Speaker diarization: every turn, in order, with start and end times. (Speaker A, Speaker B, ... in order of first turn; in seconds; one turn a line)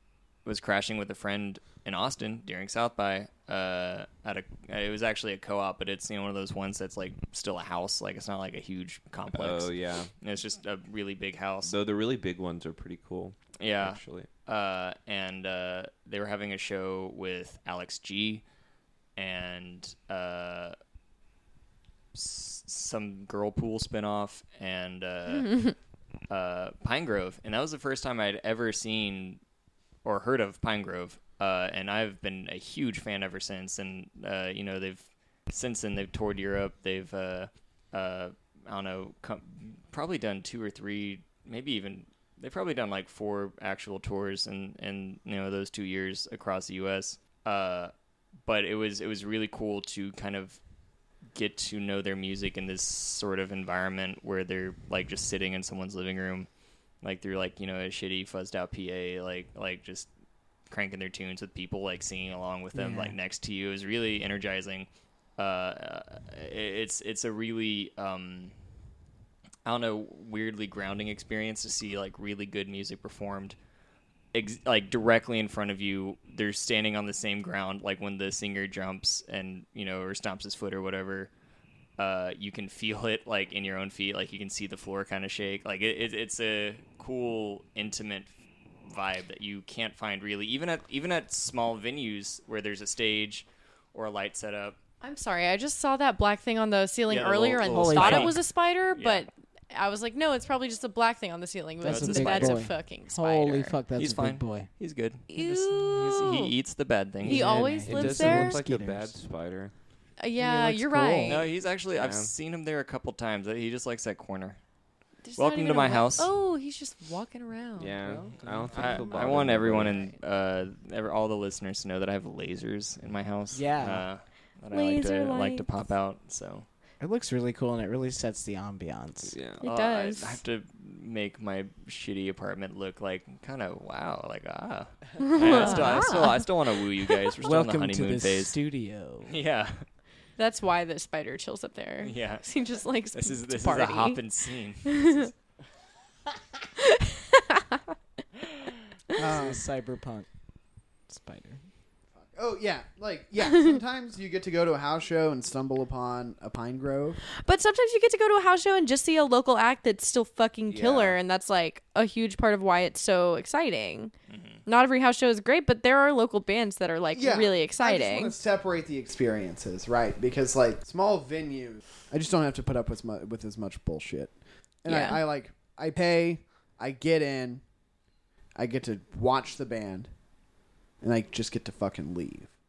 Speaker A: 0.4-11.7
Speaker B: 9.3-10.1
Speaker B: 11.6-14.3
Speaker A: 13.6-18.4
Speaker A: 19.1-20.8
Speaker A: 22.1-25.7
Speaker C: 25.4-25.7
Speaker A: 26.3-29.4
Speaker A: 30.0-47.9
Speaker A: 48.5-50.6
Speaker A: 51.3-56.5
Speaker A: 57.0-60.1
Speaker A: 60.7-68.5
Speaker D: 62.7-63.2
Speaker A: 69.6-73.5
Speaker A: 74.3-81.3
Speaker A: 82.0-88.3
Speaker A: 88.9-94.8
Speaker C: 95.0-103.7
Speaker A: 97.1-99.2
Speaker D: 97.7-98.4
Speaker D: 101.8-104.7
Speaker A: 101.8-102.7
Speaker A: 104.0-107.7
Speaker C: 105.3-106.5
Speaker C: 107.2-108.6
Speaker D: 107.2-109.1
Speaker B: 107.8-109.7
Speaker C: 110.2-111.5
Speaker D: 110.4-111.4
Speaker A: 111.2-114.6
Speaker B: 111.9-112.3
Speaker C: 115.2-118.0
Speaker A: 115.3-116.3
Speaker B: 117.8-120.0
Speaker D: 118.0-119.4
Speaker A: 118.7-126.6
Speaker C: 119.8-120.1
Speaker D: 123.5-124.1
Speaker C: 124.7-125.7
Speaker D: 127.0-129.4
Speaker B: 129.3-129.6
Speaker C: 129.6-130.4
Speaker A: 129.6-138.6
Speaker C: 135.2-136.4
Speaker D: 135.5-136.0
Speaker D: 137.4-139.3
Speaker A: 139.3-139.8
Speaker C: 140.4-144.2
Speaker A: 142.0-142.5
Speaker A: 143.1-145.3
Speaker C: 144.8-145.3
Speaker C: 146.8-147.8
Speaker E: 149.2-149.6
Speaker D: 149.2-150.3
Speaker D: 151.1-151.6
Speaker E: 152.2-157.2
Speaker C: 157.4-164.1
Speaker B: 160.7-161.2
Speaker A: 164.3-164.6
Speaker C: 164.7-168.3
Speaker E: 167.1-177.6
Speaker C: 174.9-175.2
Speaker E: 178.6-180.1
Speaker E: 181.0-182.5